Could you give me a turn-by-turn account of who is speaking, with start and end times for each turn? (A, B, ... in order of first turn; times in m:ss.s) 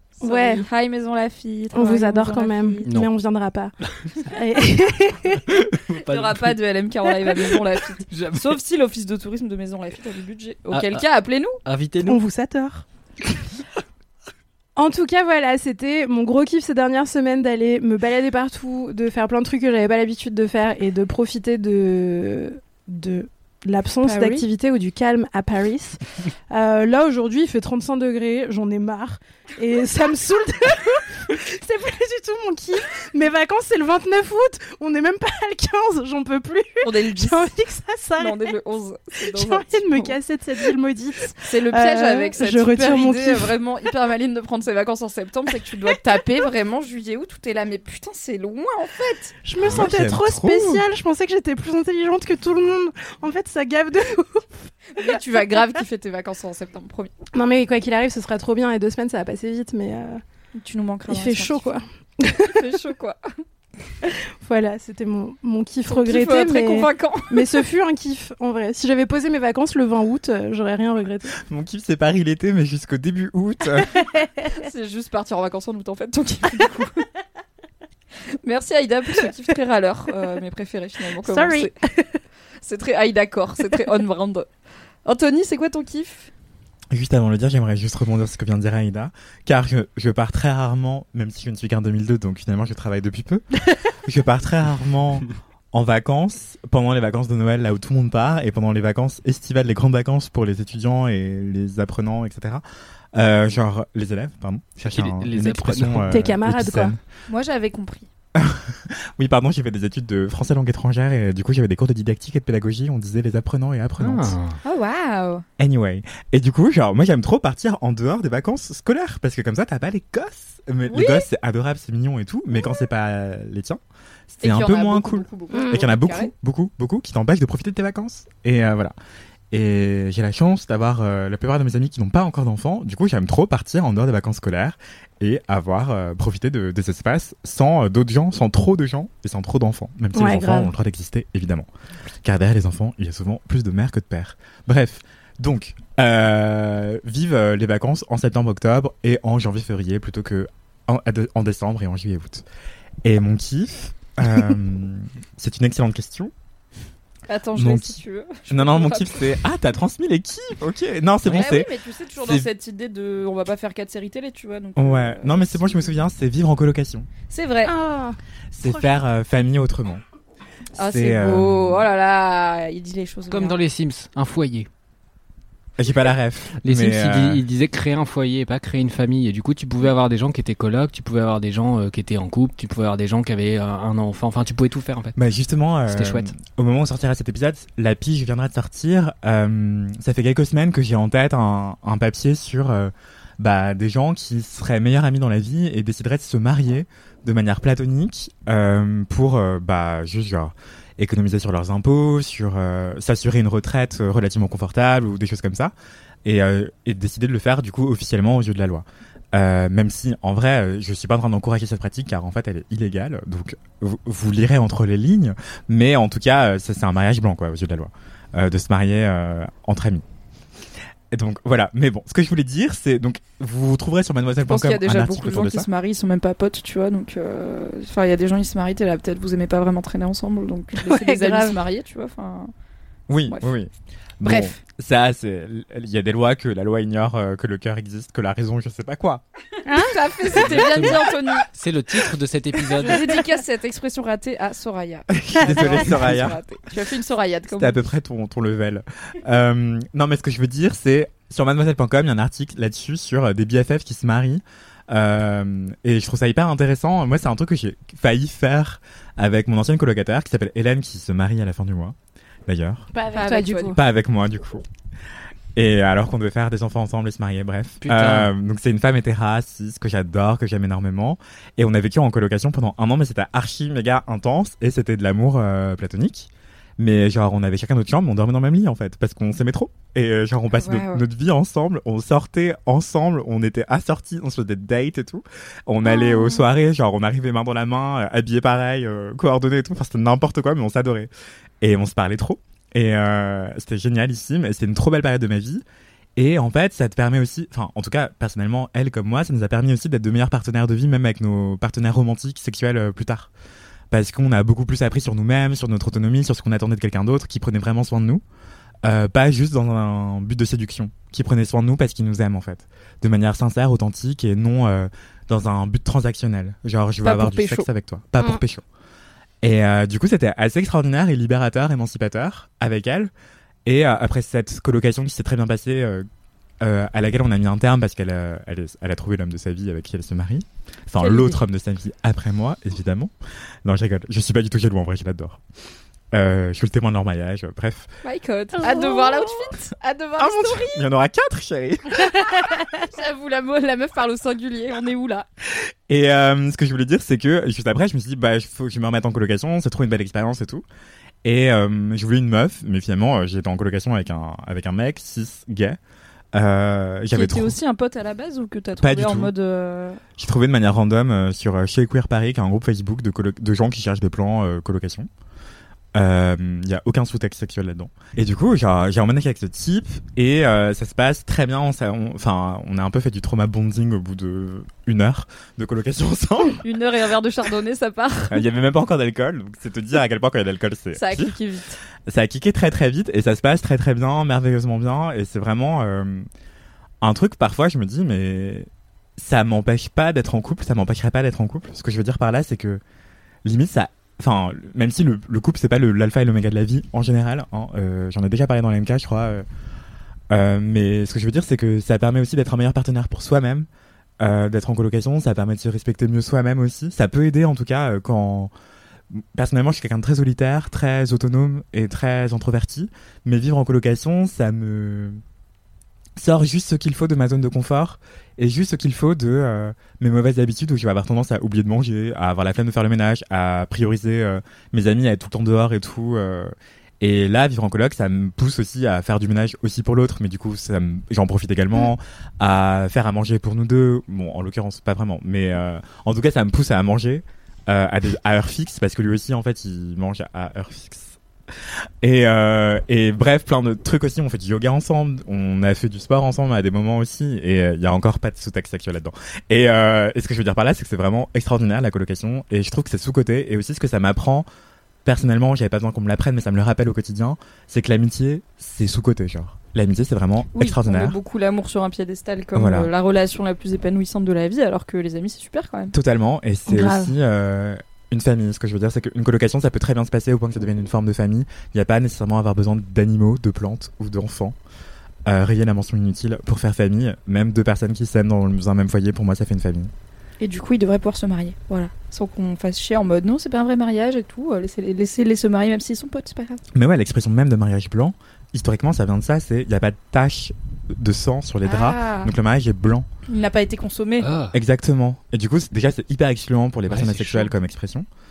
0:00.2-0:00.7 A
0:00.2-0:02.9 B
0:01.7-0:05.4 A
0:05.5-0:06.6 C
0:06.1-0:11.6 B
0:08.1-0:08.5 C
0:10.7-0:11.1 C
0:11.6-0:12.2 C
0:12.0-0:12.9 A
0:14.8-0:38.5 A
0:24.0-0:24.5 B
0:36.8-0:37.5 B
0:38.2-0:40.2 B
0:39.2-0:43.5 A
0:41.4-0:49.4 B
0:49.4-0:55.4 A
0:49.6-0:50.8 D
0:55.0-0:57.1 B
0:57.4-1:00.2 A
1:00.6-1:01.7 B
1:01.1-1:02.6 A
1:02.4-1:03.2 B
1:04.0-1:11.4 A
1:05.9-1:07.6 B
1:11.4-1:13.9 D
1:13.9-1:14.6 A
1:14.6-1:17.0 B
1:18.4-1:21.7 B
1:21.2-1:22.2 A
1:22.6-1:24.5 B
1:25.0-1:26.3 B
1:26.9-1:33.5 D
1:34.0-1:42.6 D
1:43.2-1:47.0 D
1:44.8-1:46.3 C
1:46.1-1:47.0 A
1:47.3-1:48.1 B
1:48.4-1:54.4 D
1:54.0-1:54.6 C
1:54.6-1:55.4 B
1:55.6-2:03.8 D
2:00.9-2:01.3 B
2:04.3-2:08.9 D
2:04.4-2:06.3 B
2:09.5-2:21.7 D
2:20.2-2:20.7 A
2:22.2-2:32.4 D
2:33.0-2:36.3 D
2:37.3-2:39.3 B
2:37.6-2:42.5 D
2:41.3-2:45.8 B
2:44.8-2:47.1 D
2:47.3-2:47.7 B
2:47.7-2:48.9 A
2:48.5-2:50.0 D
2:50.8-2:51.8 D
2:50.8-2:53.6 B
2:53.3-2:54.7 C
2:55.8-2:57.4 D
2:56.6-3:05.2 C
3:05.2-3:25.7 D
3:05.9-3:06.3 C
3:26.2-3:40.0 D
3:41.1-3:45.7 D
3:44.5-3:52.5 B
3:50.8-3:51.6 A
3:53.1-3:59.2 D
3:54.2-3:54.6 B
3:59.7-4:00.3 A
3:59.7-4:01.5 B
4:00.4-4:03.1 C
4:02.8-4:07.8 B
4:05.1-4:06.4 D
4:07.5-4:22.0 D
4:22.5-4:22.9 D
4:22.9-4:23.8 A
4:23.1-4:23.8 B
4:23.7-4:24.6 D
4:25.6-4:51.1 D
4:27.8-4:28.3 C
4:40.6-4:41.0 B
4:45.9-4:46.4 B
4:51.6-4:55.6 D
4:56.2-5:03.3 D
5:03.9-5:08.2 D
5:08.8-5:18.6 D
5:17.0-5:17.7 B
5:19.4-5:23.1 D
5:23.7-5:26.0 D
5:26.6-5:33.1 D
5:31.0-5:31.3 A
5:33.6-5:35.4 D
5:36.1-5:37.9 D
5:38.0-5:40.8 B
5:38.6-5:39.6 A
5:40.3-5:42.2 D
5:42.0-5:42.8 A
5:42.9-5:45.2 B
5:45.9-5:50.6 D
5:51.2-5:55.8 D
5:56.3-5:57.6 D
5:57.1-6:00.0 B
5:58.8-5:59.3 D
6:00.2-6:05.1 D
6:05.9-6:16.6 D
6:16.6-6:18.4 B
6:18.3-6:21.4 D
6:21.0-6:21.8 B
6:22.1-6:26.2 D
6:27.0-6:32.8 D
6:33.4-6:39.4 D
6:40.3-6:43.7 D
6:44.2-6:48.5 D
6:49.1-6:55.2 D
6:56.2-7:21.2 D
7:22.0-7:34.5 D
7:35.0-7:41.2 D
7:40.6-7:45.9 B
7:42.6-7:42.9 D
7:45.9-7:54.6 D
7:46.7-7:47.1 A
7:55.3-7:59.9 D
8:00.4-8:06.6 B
8:06.7-8:13.1 D
8:11.6-8:12.3 B
8:13.3-8:14.3 B
8:14.2-8:14.6 C
8:14.5-8:18.1 D
8:16.9-8:17.5 C